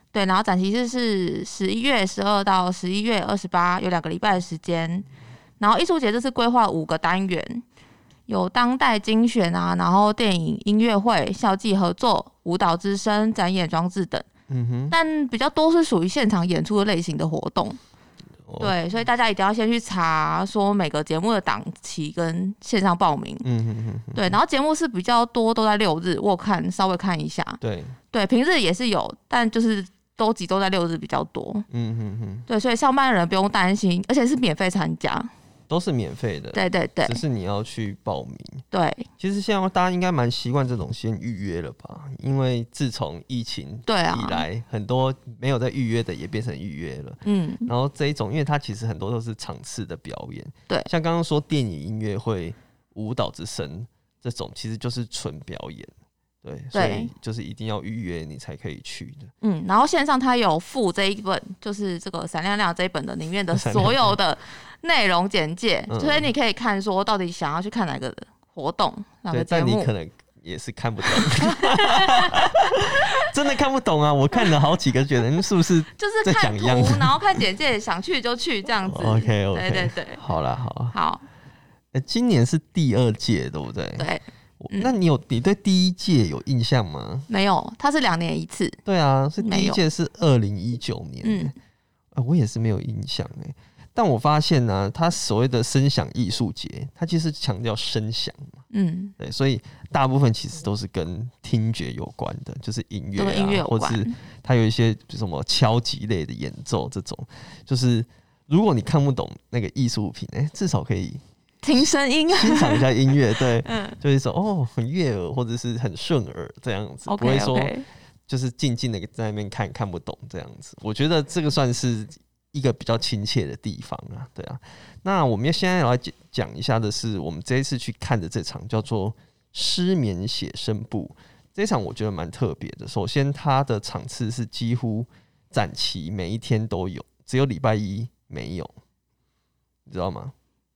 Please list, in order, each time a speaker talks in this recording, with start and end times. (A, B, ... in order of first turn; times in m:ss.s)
0:00.1-0:05.1 A
0:05.6-0:07.6 A
0:08.3-0:14.2 A
0:14.5-0:14.9 B
0:14.9-0:17.8 A
0:18.5-0:18.8 B
0:18.6-0:23.4 A
0:23.4-0:24.4 B
0:24.1-0:27.6 A
0:27.6-0:28.0 B
0:28.1-0:31.6 A
0:31.7-0:32.5 B
0:32.5-0:35.3 A
0:35.7-0:38.6 B
0:36.5-0:37.2 A
0:38.7-0:39.1 A
0:39.2-0:55.9 B
0:43.9-0:44.4 A
0:47.2-0:47.7 A
0:56.4-0:59.3 B
0:56.7-0:57.1 A
0:59.4-1:09.9 A
1:03.5-1:04.1 B
1:05.9-1:06.3 B
1:09.3-1:17.4 B
1:11.2-1:12.5 A
1:16.0-1:20.2 A
1:18.8-1:20.9 B
1:20.9-1:21.2 A
1:21.9-1:24.1 B
1:24.0-1:24.9 A
1:24.6-1:27.3 B
1:27.3-1:28.8 A
1:28.8-1:31.5 B
1:29.4-1:29.8 A
1:31.2-1:31.5 A
1:32.1-1:38.5 B
1:38.7-1:39.1 A
1:39.2-1:51.2 B
1:43.2-1:44.1 A
1:51.6-1:52.9 A
1:51.7-1:57.7 B
1:53.6-1:54.0 A
1:57.1-1:57.8 A
1:58.3-2:18.7 B
2:19.9-2:20.3 B